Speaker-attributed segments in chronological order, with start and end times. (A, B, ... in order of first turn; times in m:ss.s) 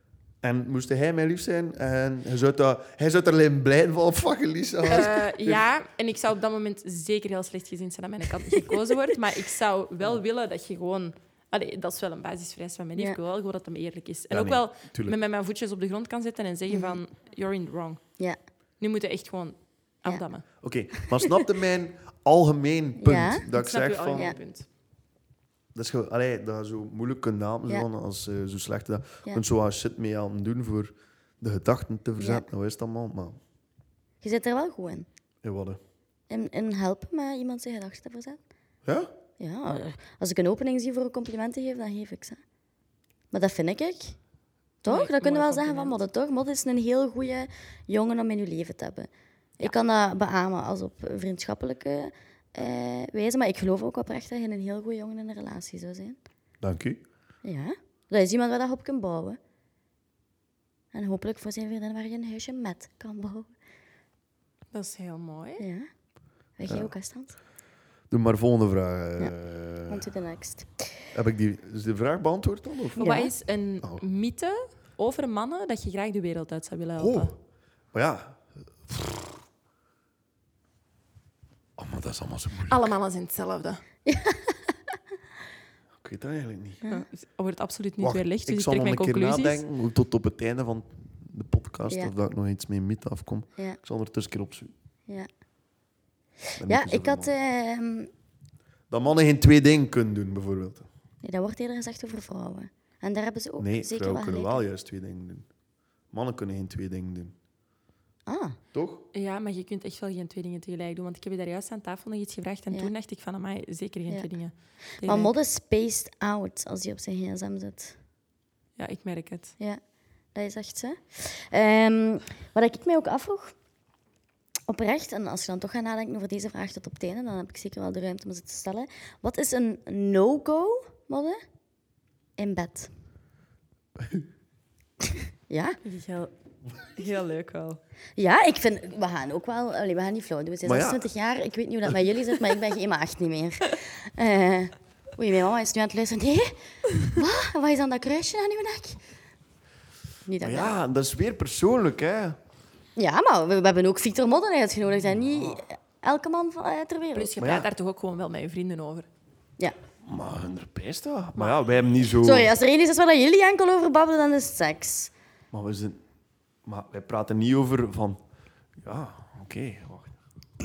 0:00.4-0:05.6 A
0:04.9-0:18.0 B
0:14.3-0:15.2 A
0:16.7-0:17.0 C
0:18.8-0:20.4 B
0:20.6-0:24.3 A
0:21.0-0:21.3 C
0:23.0-0:23.4 C
0:23.5-0:24.6 B
0:25.7-0:33.4 A
0:32.2-0:32.4 C
0:34.2-0:35.1 C
0:35.4-0:35.8 A
0:36.3-0:38.4 C
0:38.8-0:39.1 A
0:39.4-0:42.4 C
0:43.3-0:44.2 C
0:44.8-0:49.1 C
0:44.8-0:46.0 B
0:49.6-0:56.2 C
0:56.6-0:57.0 A
0:57.4-0:59.4 C
1:00.9-1:03.5 C
1:04.7-1:05.6 B
1:05.6-1:05.9 C
1:06.6-1:07.4 C
1:08.1-1:10.1 A
1:09.9-1:10.9 C
1:11.1-1:13.1 A
1:13.0-1:17.3 B
1:13.0-1:13.3 C
1:17.0-1:17.3 A
1:17.9-1:19.4 A
1:21.8-1:22.8 A
1:22.7-1:23.8 B
1:24.0-1:24.6 C
1:26.0-1:26.8 A
1:26.9-1:29.6 B
1:28.0-1:34.7 A
1:36.6-1:37.3 A
1:36.7-1:38.1 C
1:38.9-1:40.9 A
1:41.2-1:44.6 C
1:43.6-1:45.5 A
1:46.1-1:47.3 A
1:48.3-1:48.6 C
1:48.7-1:49.0 A
1:49.1-1:55.3 B
1:55.0-1:58.0 C
1:58.8-1:59.5 B
2:00.3-2:03.5 C
2:04.7-2:11.4 C
2:12.4-2:12.9 C
2:15.5-2:15.8 C
2:15.8-2:16.3 B
2:16.9-2:17.8 B
2:18.2-2:29.0 C
2:20.6-2:21.1 A
2:30.3-2:30.8 C
2:30.4-2:32.4 A
2:33.0-2:37.3 C
2:35.0-2:35.6 A
2:37.1-2:39.1 B
2:37.4-2:37.7 A
2:40.0-2:42.5 A
2:41.4-2:41.7 B
2:42.2-2:45.1 C
2:45.5-2:46.0 A
2:46.6-2:48.2 A
2:48.8-2:50.1 A